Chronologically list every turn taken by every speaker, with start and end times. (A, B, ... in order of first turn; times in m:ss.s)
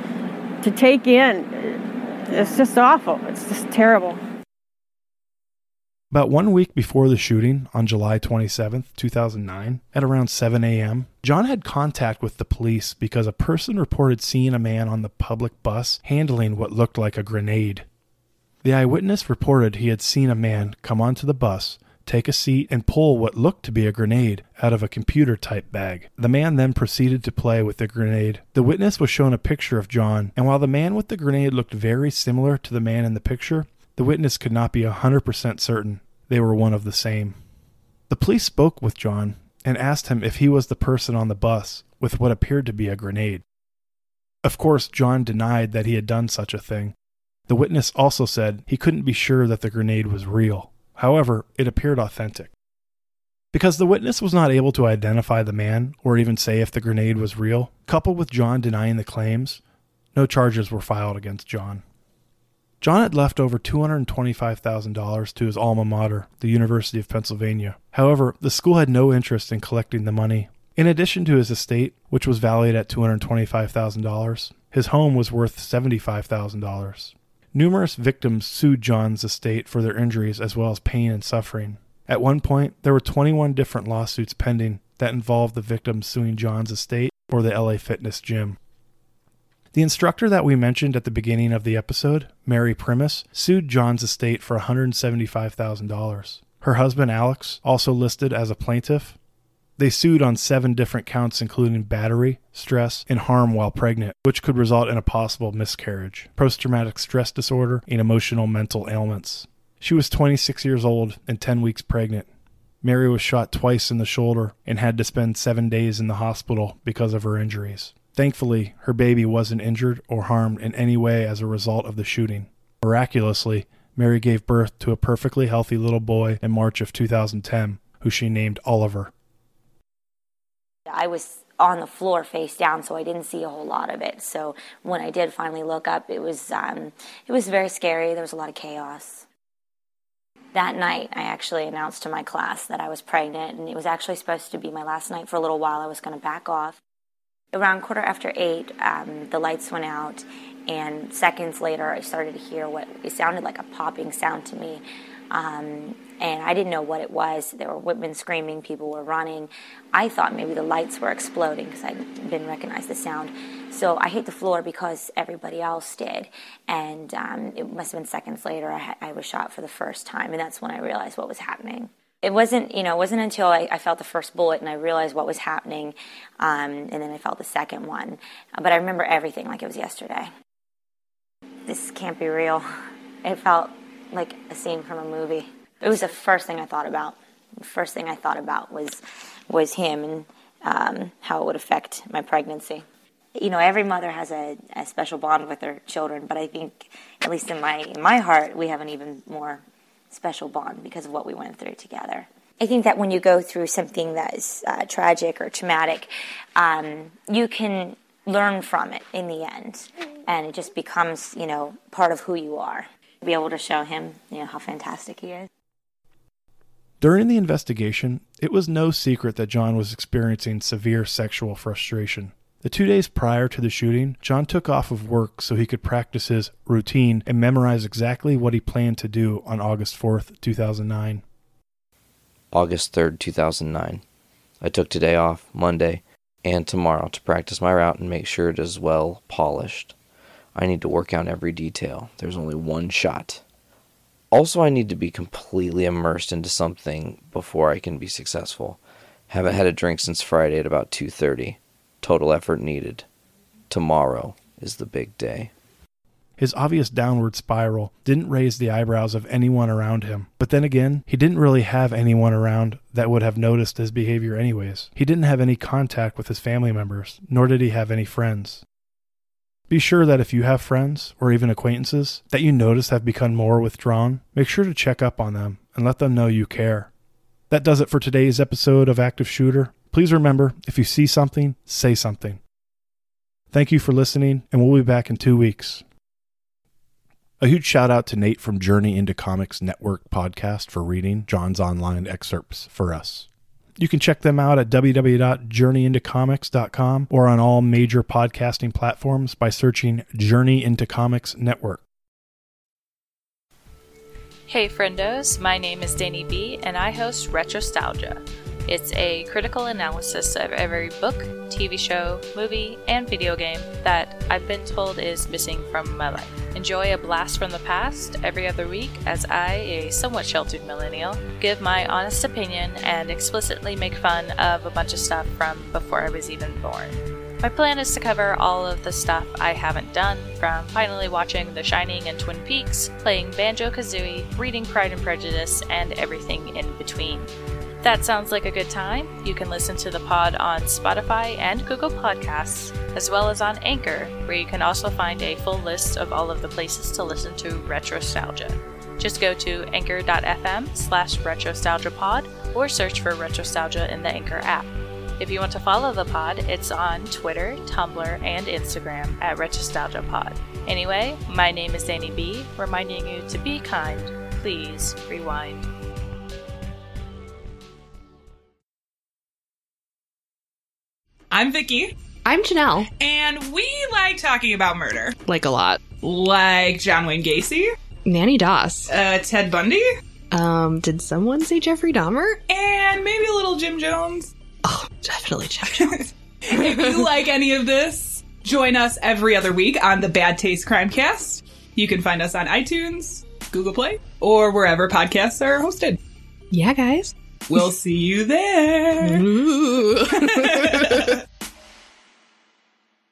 0:00.6-0:04.2 A
0:06.1-0:17.9 B
0:18.6-0:37.4 B
0:38.1-0:43.4 B
0:44.4-0:46.9 B
0:47.5-0:52.5 B
0:53.5-0:59.6 B
1:00.1-1:01.8 B
1:02.8-1:28.6 B
1:29.7-1:39.2 B
1:39.8-1:52.3 B
1:52.8-2:09.1 B
2:10.9-2:19.3 C
2:20.5-2:26.8 C
2:27.5-3:00.3 C
3:01.7-3:02.6 C
3:03.2-3:12.8 C
3:13.4-3:35.5 C
3:37.0-3:51.2 B
3:52.5-3:54.0 D
3:54.6-4:00.0 D
4:00.6-4:03.4 D
4:04.3-4:13.1 D
4:13.7-4:15.5 D
4:16.4-4:28.6 B
4:29.7-4:36.9 B
4:37.5-4:42.4 B
4:43.5-4:45.8 B
4:47.4-5:01.8 B
5:04.5-5:37.3 E
5:37.8-6:05.7 E
6:11.3-6:12.0 F
6:12.2-6:12.9 G
6:13.0-6:15.2 F
6:15.2-6:16.0 G
6:15.9-6:17.8 F
6:18.0-6:18.9 G
6:18.9-6:20.0 F
6:20.3-6:22.4 G
6:22.5-6:24.3 F
6:24.6-6:27.1 G
6:25.7-6:36.0 F
6:36.5-6:37.7 G
6:37.5-6:39.3 F
6:39.0-6:41.2 G
6:40.0-6:41.2 F